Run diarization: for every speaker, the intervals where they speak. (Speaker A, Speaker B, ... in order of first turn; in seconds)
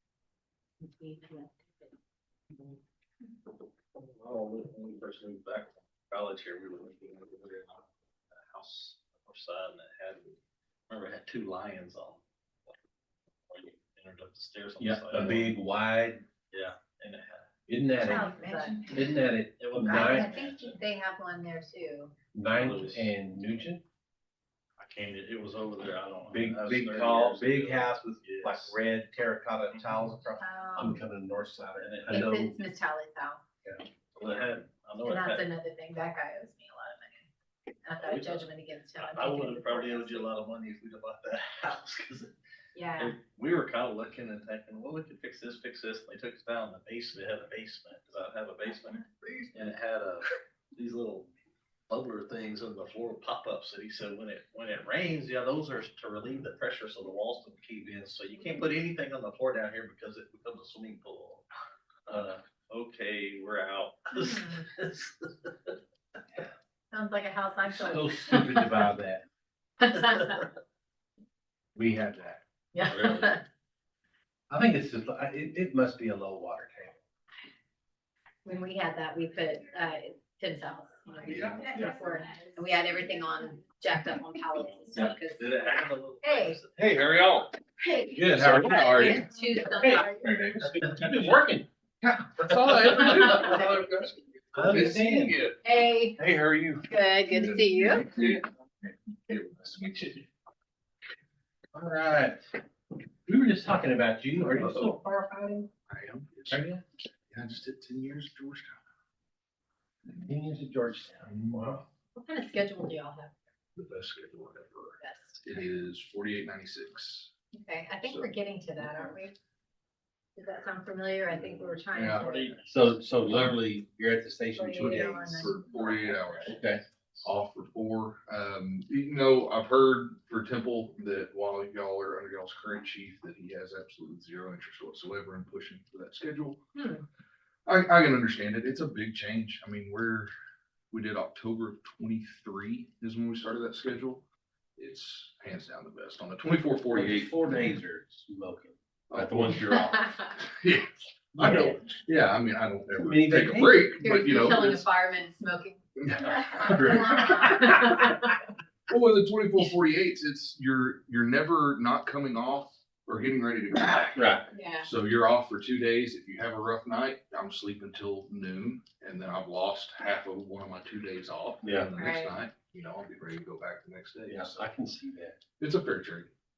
Speaker A: 0.8-1.9, 18.0-18.8, 19.8-22.1, 30.4-31.0, 32.1-33.4, 35.0-37.3, 37.8-40.3, 42.7-43.1, 64.2-64.6, 66.9-68.9, 69.8-70.4, 72.7-73.4, 78.4-85.5, 86.2-86.6, 87.8-90.3, 95.6-96.2, 96.9-98.1, 112.2-113.3, 115.0-115.4, 117.5-119.3, 120.3-122.5, 124.5-126.5, 136.7-137.0, 154.0-158.2, 164.5-164.9, 171.9-172.3
Speaker B: 3.9-10.4, 10.9-12.8, 13.5-15.6, 16.5-17.5, 18.1-20.8, 22.5-23.1, 24.8-28.8, 29.7-30.1, 31.8-32.3, 34.1-35.5, 38.0-42.3, 43.0-51.3, 51.9-61.5, 62.1-65.8, 84.8-86.9
Speaker C: 14.8-16.2, 17.7-20.4, 22.3-23.8, 26.3-32.5, 67.7-69.2, 71.7-73.3, 74.5-77.0, 88.1-91.7, 94.5-95.4, 101.7-102.5, 103.2-105.7, 106.5-106.8, 110.1-111.8, 122.7-125.3, 126.5-126.8, 146.9-150.2, 151.4-151.9, 152.9-153.9, 156.6-157.3, 164.1-164.5, 171.6-171.9, 174.3-175.4
Speaker D: 81.3-81.8, 86.8-87.5, 88.2-89.2, 90.2-90.9, 92.0-95.6, 96.2-100.2, 104.3-105.0, 105.9-106.6, 107.3-108.8, 113.8-117.3, 118.0-118.3, 121.3-122.7, 124.7-126.6, 127.2-136.6, 137.7-140.3, 140.9-144.2, 144.8-147.7, 149.1-149.5, 150.3-154.8, 156.0-157.9, 158.9-174.7, 175.6-176.3